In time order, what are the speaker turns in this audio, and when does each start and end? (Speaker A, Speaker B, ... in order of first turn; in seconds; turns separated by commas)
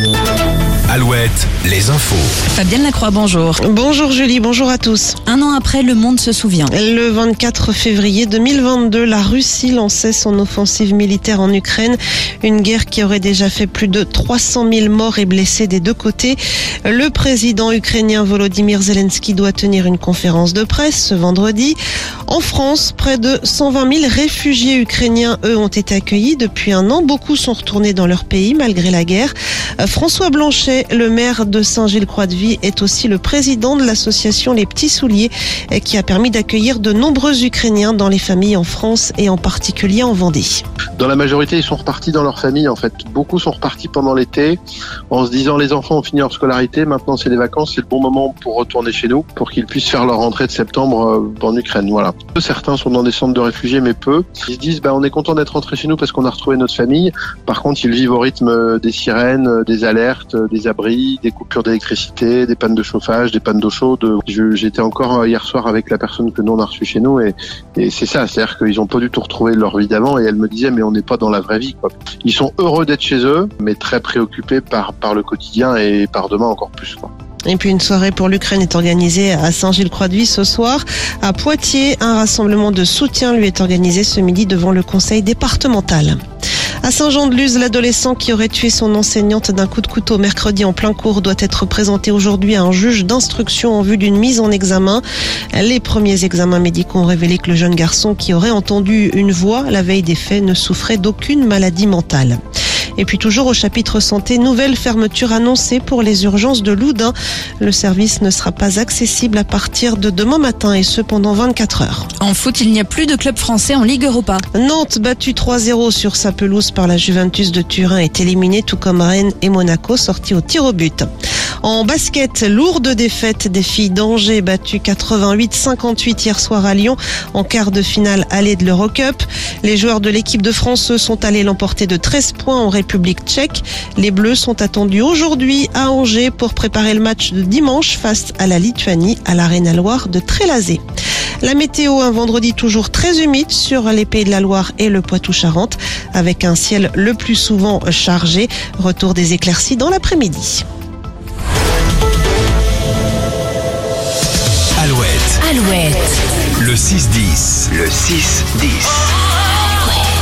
Speaker A: 0.9-2.4, Speaker B: 2.5-3.6, Speaker C: 3.6-5.2, Speaker B: 5.3-6.7, Speaker C: 6.7-21.8, Speaker C: 22.3-40.6, Speaker D: 41.0-44.6, Speaker D: 45.1-77.1, Speaker C: 77.5-86.2, Speaker C: 86.8-95.0, Speaker C: 95.5-102.4, Speaker C: 103.0-112.1, Speaker B: 112.2-114.4, Speaker C: 114.5-121.1, Speaker C: 121.6-140.8, Speaker C: 141.4-150.6, Speaker A: 154.8-155.4, Speaker B: 155.4-156.1, Speaker A: 156.6-159.1